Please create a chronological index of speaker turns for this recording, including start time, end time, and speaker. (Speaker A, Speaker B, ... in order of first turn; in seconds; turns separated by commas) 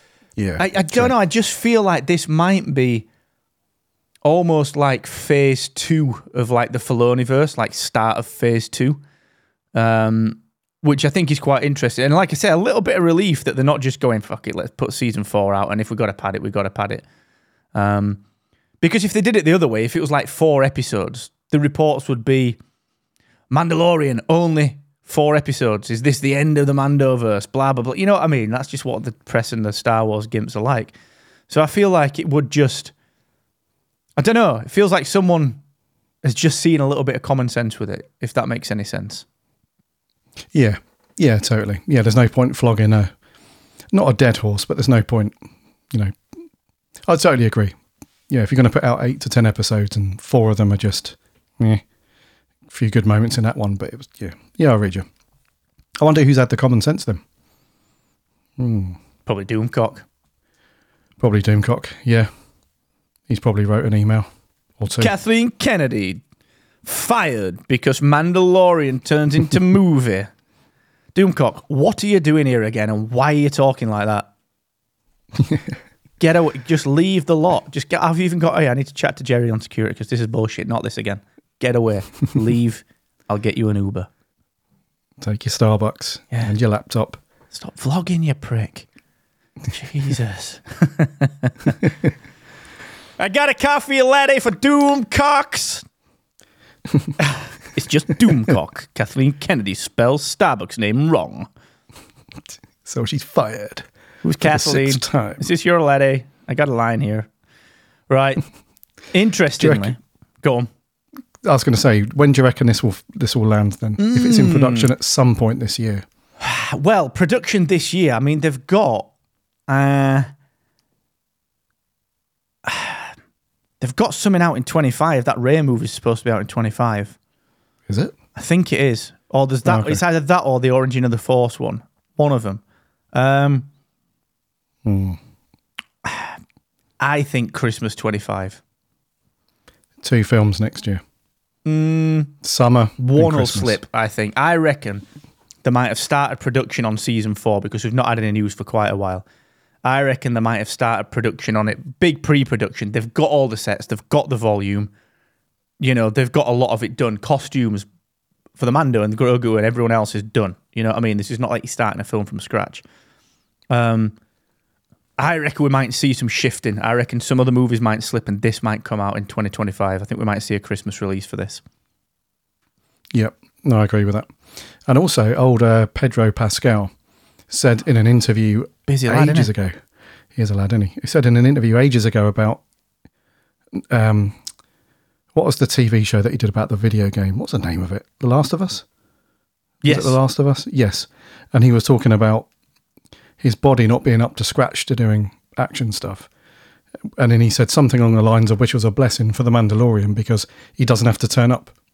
Speaker A: 0.4-1.1, Speaker B: 0.6-3.1, Speaker B: 4.2-9.0, Speaker B: 9.7-17.0, Speaker B: 17.7-18.2, Speaker B: 18.8-22.6, Speaker B: 23.5-30.9, Speaker B: 31.5-32.9, Speaker B: 34.2-35.6, Speaker B: 36.2-39.3, Speaker A: 40.5-43.1, Speaker A: 43.9-45.4, Speaker A: 45.9-46.2, Speaker A: 47.1-47.8, Speaker A: 48.3-51.8, Speaker A: 52.7-55.1, Speaker A: 56.0-57.2, Speaker A: 58.6-59.0, Speaker B: 59.3-60.1, Speaker A: 61.2-62.3, Speaker A: 63.3-64.3, Speaker A: 64.8-65.1, Speaker B: 65.0-66.2, Speaker B: 66.8-70.3, Speaker B: 71.2-74.3, Speaker A: 75.4-75.7, Speaker B: 76.2-84.1, Speaker A: 85.2-87.2, Speaker B: 87.5-88.9, Speaker B: 89.7-91.8, Speaker B: 93.2-95.8, Speaker B: 97.2-101.5, Speaker A: 102.8-103.9, Speaker B: 104.2-107.3, Speaker A: 104.4-105.4, Speaker B: 108.1-108.4, Speaker B: 109.1-110.7, Speaker A: 109.6-109.9, Speaker A: 111.5-116.0, Speaker B: 114.0-114.9, Speaker B: 116.4-119.1, Speaker B: 119.7-120.3, Speaker B: 122.6-123.1, Speaker B: 123.8-127.2, Speaker A: 127.9-128.1, Speaker B: 128.4-132.6, Speaker A: 129.7-130.0, Speaker B: 133.1-133.7, Speaker A: 134.8-135.2, Speaker B: 136.0-136.4, Speaker B: 137.0-138.6, Speaker A: 140.0-141.0, Speaker B: 141.7-142.3, Speaker A: 142.4-143.8, Speaker B: 143.0-145.1, Speaker B: 145.6-149.2, Speaker B: 149.8-154.9, Speaker B: 155.8-157.9, Speaker B: 158.6-162.8, Speaker B: 163.7-164.2, Speaker B: 165.2-171.6, Speaker A: 173.1-174.3, Speaker A: 174.9-176.9, Speaker A: 177.5-179.8, Speaker B: 178.9-179.5, Speaker A: 180.3-182.6, Speaker A: 183.8-184.4, Speaker A: 185.3-188.8, Speaker B: 189.8-190.2, Speaker A: 189.9-192.5, Speaker A: 193.4-196.3, Speaker A: 197.2-201.7